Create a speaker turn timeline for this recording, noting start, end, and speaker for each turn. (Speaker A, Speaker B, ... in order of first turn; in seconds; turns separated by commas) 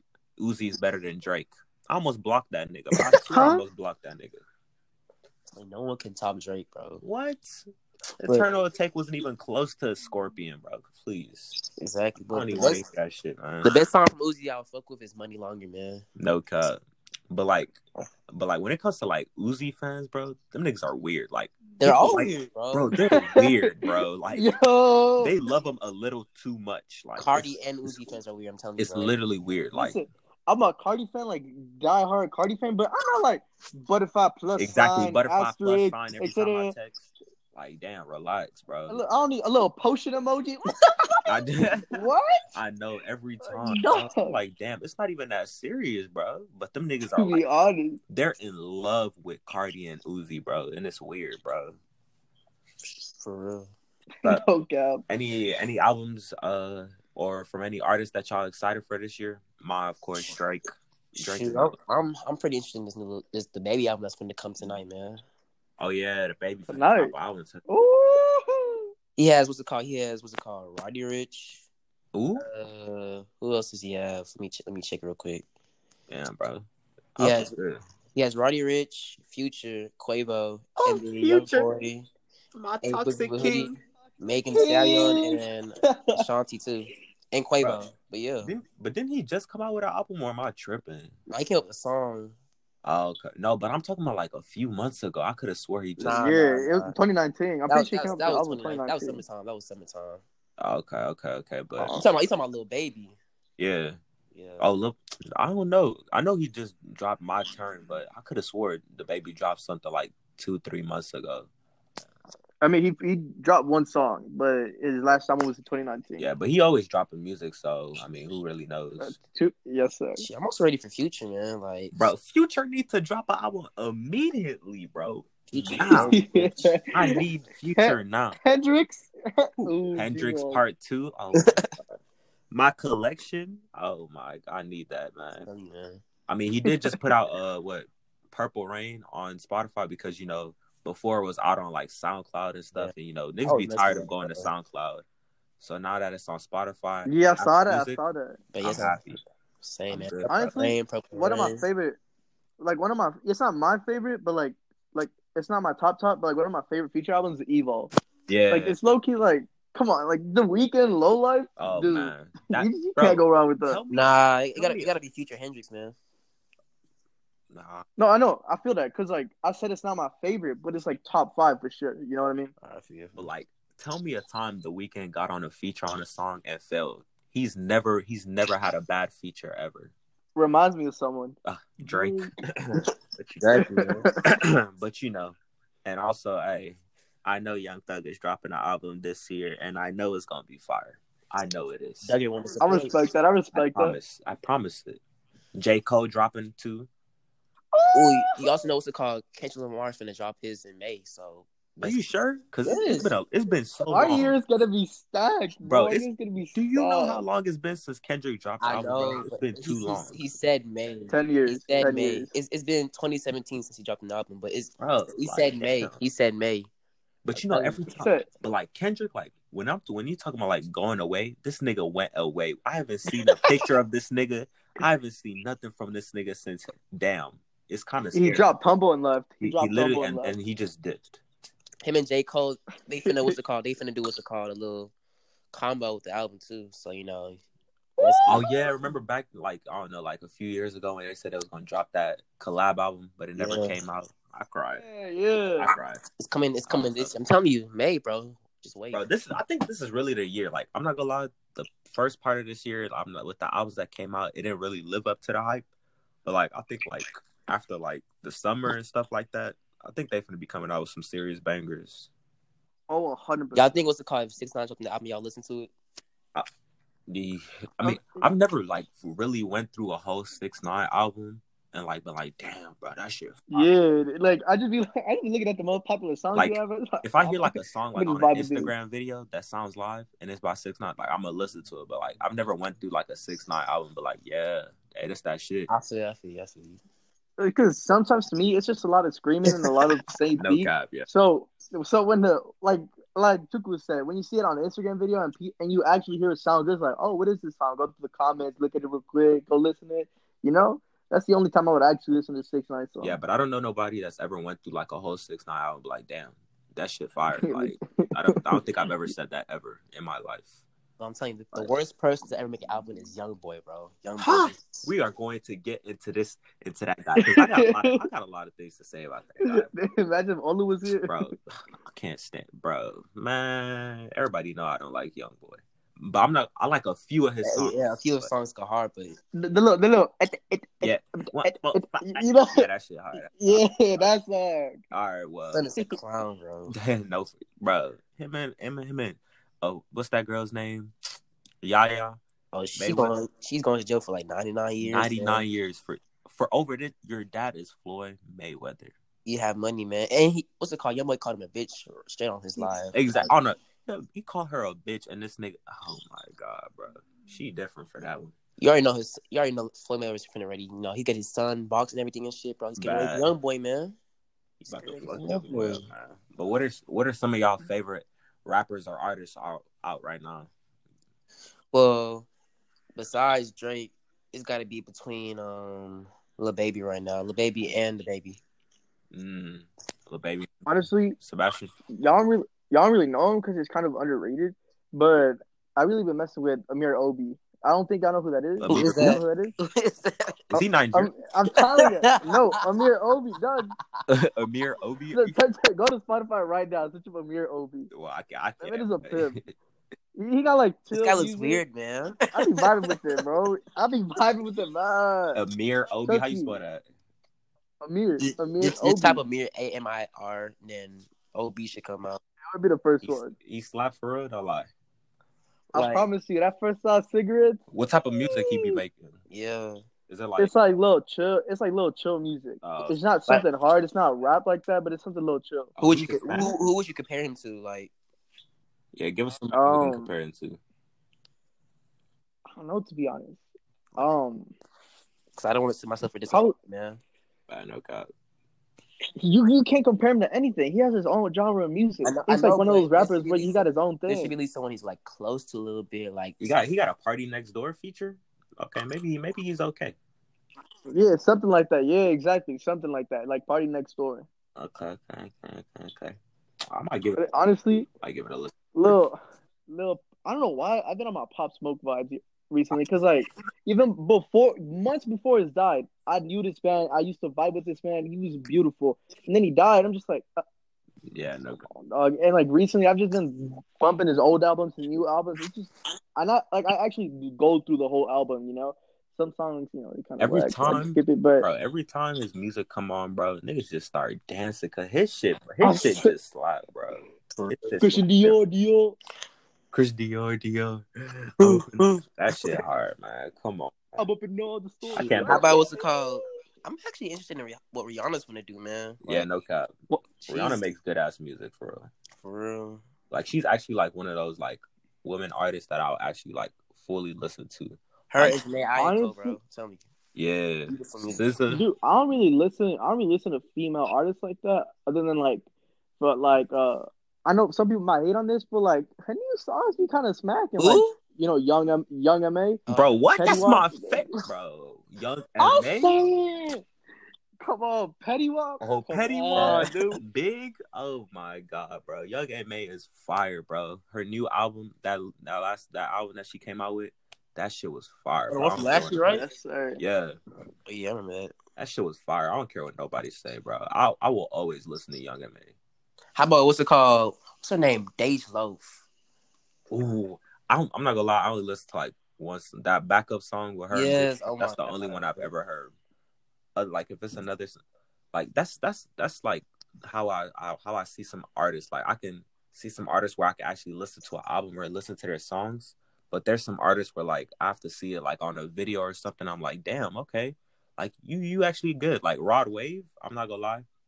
Speaker A: 0.4-4.4, Speaker B: 3.1-3.6, Speaker C: 5.5-7.0, Speaker A: 7.0-7.7, Speaker A: 8.2-11.6, Speaker C: 11.8-12.8, Speaker A: 12.3-13.8, Speaker C: 13.6-16.1, Speaker A: 16.2-24.5, Speaker C: 21.8-22.9, Speaker B: 23.1-25.4, Speaker A: 25.2-28.0, Speaker C: 27.2-29.1, Speaker A: 28.8-30.0, Speaker B: 29.7-36.7, Speaker A: 34.6-39.0, Speaker B: 38.9-42.5, Speaker A: 41.3-47.4, Speaker B: 43.4-44.4, Speaker B: 47.2-48.0, Speaker A: 48.1-51.8, Speaker C: 53.2-53.7, Speaker B: 54.2-55.0, Speaker A: 55.1-61.8, Speaker C: 61.2-65.2, Speaker A: 65.8-67.6, Speaker B: 66.7-67.1, Speaker B: 67.7-68.9, Speaker C: 69.2-71.7, Speaker A: 72.1-72.5, Speaker C: 72.4-75.5, Speaker A: 76.1-77.8, Speaker C: 77.2-77.5, Speaker C: 78.1-82.1, Speaker A: 80.8-81.7, Speaker A: 82.5-83.8, Speaker C: 82.8-88.5, Speaker B: 84.5-86.2, Speaker A: 88.4-91.2, Speaker C: 91.3-92.4, Speaker A: 92.8-96.2, Speaker C: 96.0-97.0, Speaker B: 96.1-99.2, Speaker C: 97.7-100.2, Speaker A: 100.6-102.0, Speaker C: 101.9-103.2, Speaker A: 103.6-104.0, Speaker C: 104.3-104.7, Speaker A: 104.6-111.5, Speaker B: 112.6-116.3, Speaker A: 116.2-119.1, Speaker B: 119.0-120.2, Speaker C: 120.2-122.0, Speaker A: 121.9-126.2, Speaker C: 125.5-126.8, Speaker B: 126.1-127.2, Speaker A: 126.9-128.4, Speaker B: 127.8-130.6, Speaker A: 129.9-131.6, Speaker C: 131.3-131.7, Speaker A: 132.5-135.5, Speaker C: 135.4-136.0, Speaker A: 136.3-145.0, Speaker C: 143.4-144.5, Speaker A: 145.6-148.0, Speaker B: 147.1-148.4, Speaker C: 148.5-151.7, Speaker A: 148.6-149.2, Speaker A: 149.9-150.5, Speaker B: 150.3-152.0, Speaker B: 152.6-157.9, Speaker A: 158.3-158.8, Speaker B: 158.5-163.8, Speaker A: 161.6-164.9, Speaker C: 163.9-165.9, Speaker A: 167.5-167.9, Speaker B: 168.0-172.5, Speaker C: 172.6-173.2, Speaker A: 173.2-179.9, Speaker B: 180.4-182.3, Speaker A: 181.4-183.7, Speaker C: 183.4-184.1, Speaker B: 183.8-184.2, Speaker A: 184.2-192.1, Speaker C: 192.0-193.1, Speaker B: 192.6-194.0, Speaker A: 193.5-195.0, Speaker A: 195.6-196.9, Speaker B: 197.7-198.4, Speaker C: 197.9-202.0, Speaker A: 201.8-204.4, Speaker C: 202.6-203.1, Speaker B: 203.9-207.2, Speaker A: 205.7-210.3, Speaker C: 208.6-216.7, Speaker B: 211.1-212.3, Speaker A: 214.8-216.0, Speaker A: 217.2-228.5, Speaker C: 217.5-217.8, Speaker B: 217.9-218.3, Speaker B: 223.2-223.7, Speaker B: 228.1-230.4, Speaker A: 229.4-231.2, Speaker C: 231.8-234.9, Speaker B: 233.1-233.3, Speaker C: 235.5-237.4, Speaker B: 238.0-238.6, Speaker C: 238.0-238.4, Speaker A: 238.3-244.8, Speaker C: 243.4-243.8, Speaker B: 244.8-245.7, Speaker A: 245.6-246.0, Speaker C: 246.2-249.1, Speaker A: 246.7-247.2, Speaker A: 248.9-255.7, Speaker A: 256.3-262.1, Speaker B: 262.9-263.8, Speaker C: 263.5-265.7, Speaker A: 267.1-273.7, Speaker B: 267.8-268.2, Speaker B: 273.5-278.7, Speaker A: 276.3-285.7, Speaker C: 285.7-286.8, Speaker B: 287.4-303.2, Speaker A: 290.4-291.1, Speaker A: 303.0-310.5, Speaker B: 307.4-308.6, Speaker C: 311.0-314.9, Speaker A: 314.2-319.7, Speaker B: 317.2-318.0, Speaker B: 319.4-321.3, Speaker A: 320.9-328.3, Speaker C: 327.4-329.2, Speaker B: 329.4-332.7, Speaker A: 330.8-334.1, Speaker B: 333.3-334.8, Speaker A: 334.9-335.7, Speaker C: 335.5-336.8, Speaker A: 336.7-340.9, Speaker A: 341.6-342.2, Speaker C: 342.5-345.4, Speaker A: 342.8-343.2, Speaker A: 344.8-348.9, Speaker C: 349.2-353.3, Speaker A: 352.9-358.3, Speaker C: 358.6-364.0, Speaker A: 362.8-363.3, Speaker A: 364.6-370.5, Speaker C: 364.7-365.9, Speaker C: 371.7-372.3, Speaker C: 372.9-378.4, Speaker A: 379.1-381.7, Speaker B: 380.7-381.2, Speaker B: 381.9-389.5, Speaker A: 388.6-389.2, Speaker C: 388.7-390.4, Speaker A: 390.5-391.1, Speaker B: 390.5-393.7, Speaker C: 391.6-392.6, Speaker A: 394.1-395.4, Speaker B: 395.1-397.9, Speaker A: 397.9-399.5, Speaker B: 398.6-399.4, Speaker B: 400.1-401.6, Speaker C: 400.9-403.0, Speaker B: 402.3-405.4, Speaker A: 405.4-406.8, Speaker B: 406.1-406.6, Speaker B: 407.8-409.2, Speaker C: 408.2-412.2, Speaker B: 412.5-413.4, Speaker A: 413.0-414.7, Speaker C: 415.7-416.1, Speaker B: 415.7-417.6, Speaker A: 417.7-419.2, Speaker B: 418.4-418.8, Speaker C: 419.3-419.8, Speaker A: 420.1-420.5, Speaker B: 420.4-425.7, Speaker A: 422.6-423.0, Speaker A: 425.8-426.5, Speaker C: 425.8-427.9, Speaker A: 428.9-430.6, Speaker B: 429.5-430.1, Speaker B: 432.5-433.4, Speaker B: 434.0-434.5, Speaker C: 435.4-437.0, Speaker A: 437.5-438.1, Speaker B: 439.2-444.3, Speaker C: 442.0-446.4, Speaker A: 446.4-449.9, Speaker B: 450.9-454.3, Speaker A: 454.6-456.2, Speaker A: 456.7-457.3, Speaker B: 457.2-457.9, Speaker A: 458.0-459.0, Speaker B: 458.7-470.4, Speaker A: 471.1-471.7, Speaker B: 471.7-481.5, Speaker A: 480.2-488.4, Speaker B: 485.6-486.1, Speaker C: 487.3-487.8, Speaker B: 487.8-489.0, Speaker A: 489.7-494.0, Speaker C: 491.4-492.6, Speaker B: 494.0-496.3, Speaker A: 494.9-495.6, Speaker C: 494.9-499.3, Speaker A: 499.0-501.9, Speaker C: 500.3-500.5, Speaker C: 502.2-502.8, Speaker A: 503.1-508.4, Speaker C: 508.1-509.8, Speaker B: 508.8-509.4, Speaker A: 510.1-511.6, Speaker C: 510.7-511.2, Speaker B: 511.5-515.5, Speaker B: 516.0-522.6, Speaker C: 520.6-521.0, Speaker C: 522.7-523.6, Speaker A: 522.7-526.0, Speaker B: 523.2-524.1, Speaker B: 525.4-526.6, Speaker B: 527.4-530.0, Speaker A: 528.6-539.0, Speaker C: 529.3-529.7, Speaker C: 538.3-539.2, Speaker B: 539.0-539.8, Speaker A: 539.8-540.2, Speaker C: 540.7-541.3, Speaker A: 541.6-545.5, Speaker C: 546.1-548.8, Speaker A: 549.7-555.7, Speaker C: 553.7-555.3, Speaker A: 556.6-557.6, Speaker A: 558.1-573.7